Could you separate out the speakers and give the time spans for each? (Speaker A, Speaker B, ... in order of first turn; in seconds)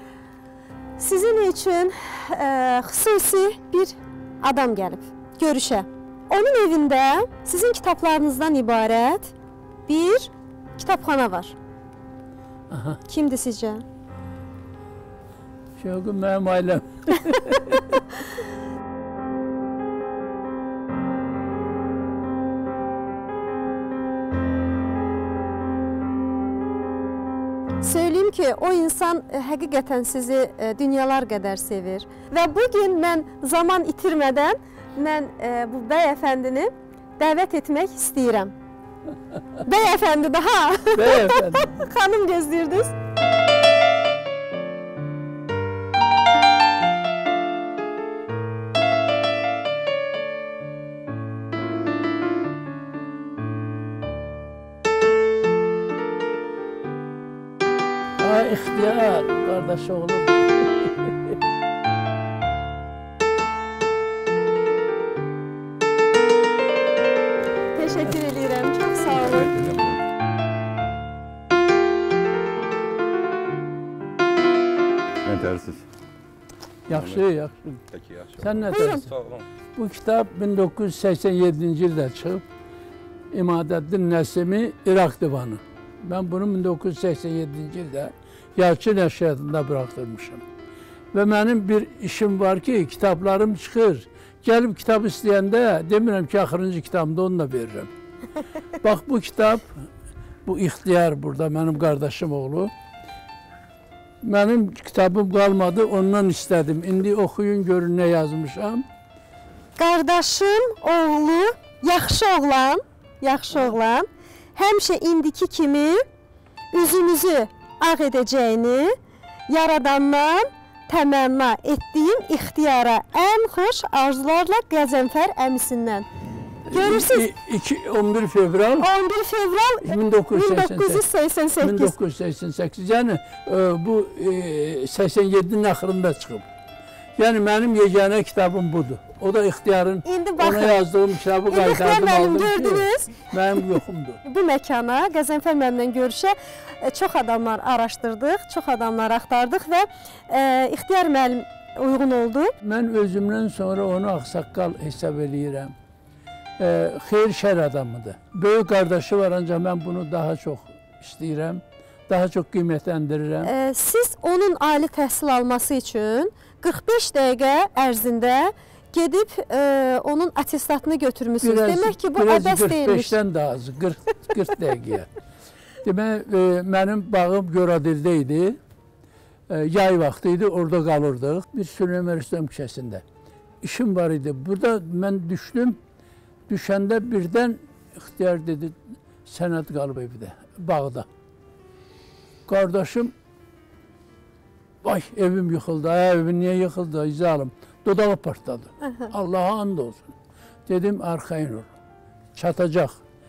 Speaker A: 1.0-9.3, 9.9-11.6, 13.1-13.8, 27.8-38.5, 39.6-42.9, 67.8-69.5, 78.7-79.1, 109.8-116.0, 116.7-119.0, 119.5-126.1, 126.7-127.3, 128.8-131.9, 140.1-140.8, 141.5-143.3, 144.2-152.5, 163.4-173.2
Speaker B: 12.7-13.0, 15.8-18.0, 40.9-41.9, 58.2-61.1, 76.9-77.7, 78.4-79.1, 79.8-82.5, 83.3-90.4, 91.1-97.9, 98.8-99.7, 100.5-102.7, 104.2-108.9, 126.7-128.9, 129.8-131.0, 131.6-136.5, 137.2-144.2, 152.6-155.7, 156.6-163.5, 171.4-175.1, 175.8-178.6, 179.5-183.0, 183.6-185.8, 186.5-191.1, 192.5-193.1, 194.8-200.1, 200.7-201.7, 202.3-203.0
Speaker C: 69.3-70.0, 75.2-75.8, 76.9-77.2, 77.9-79.4